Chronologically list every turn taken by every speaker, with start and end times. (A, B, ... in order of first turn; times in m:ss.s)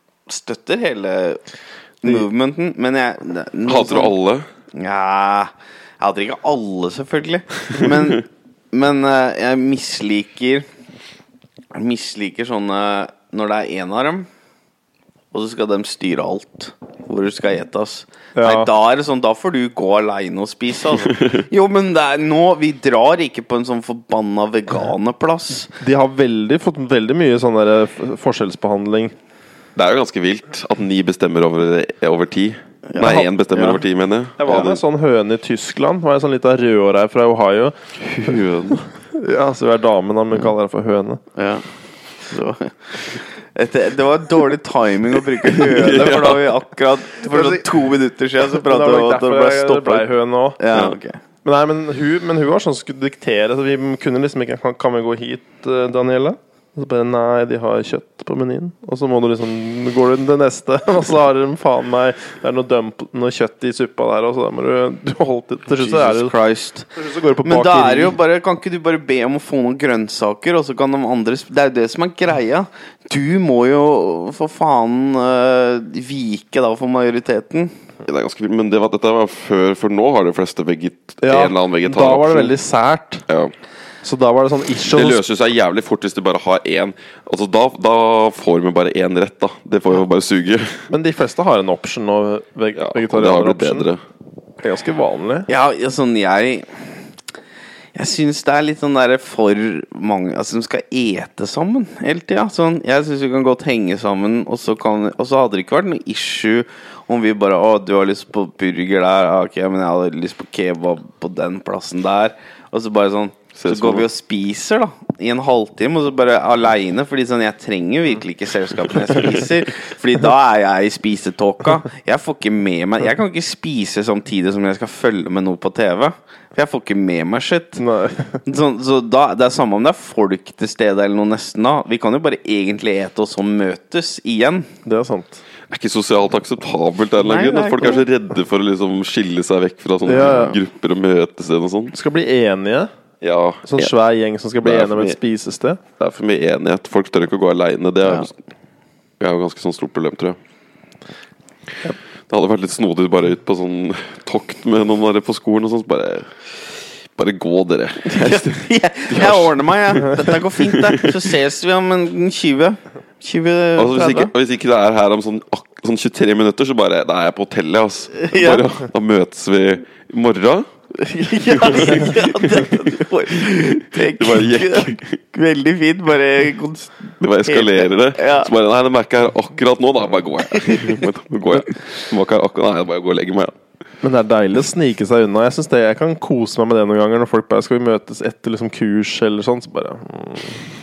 0:00.3-0:01.4 A
0:02.0-0:04.1 A
0:03.7-0:04.5 B
0:04.8-0:10.7 A
0:11.7-0:14.3 A
0:15.3-0:25.7 A
0:18.4-0:18.7 C
0:25.8-0:29.1 C
0:29.8-0:34.8 B
0:32.9-0:33.8 A
0:34.4-0:38.3 C
0:38.0-0:38.9 B
0:39.1-0:41.2 C
0:41.4-0:41.6 A
0:42.3-0:51.2 A
0:45.5-0:46.5 B
0:47.3-0:47.7 C
0:48.5-0:50.6 C
0:51.4-1:06.3 C
1:05.8-1:06.9 A
1:07.0-1:08.2 C
1:07.4-1:17.7 A
1:18.0-1:22.6 B
1:21.2-1:23.2 C
1:23.3-1:23.5 B
1:24.0-1:25.2 C
1:24.8-1:30.9 B
1:30.9-1:33.9 C
1:32.8-1:34.0 B
1:34.6-1:35.5 C
1:35.5-1:36.7 A
1:38.0-2:07.8 A
1:53.6-1:54.1 B
2:07.8-2:08.4 C
2:08.4-2:14.7 A
2:14.8-2:15.4 C
2:15.7-2:21.9 B
2:17.2-2:18.1 A
2:20.1-2:20.6 C
2:21.9-2:22.9 C
2:23.2-2:23.9 B
2:23.7-2:25.8 C
2:24.6-2:25.2 B
2:26.0-2:28.3 B
2:29.2-2:30.4 B
2:32.3-2:41.2 B
2:38.1-2:44.3 A
2:43.8-2:50.7 B
2:48.2-2:48.6 A
2:51.0-2:58.5 A
2:51.4-2:52.9 B
2:54.0-2:55.1 B
2:57.2-3:03.6 B
3:00.6-3:01.0 A
3:04.0-3:10.6 C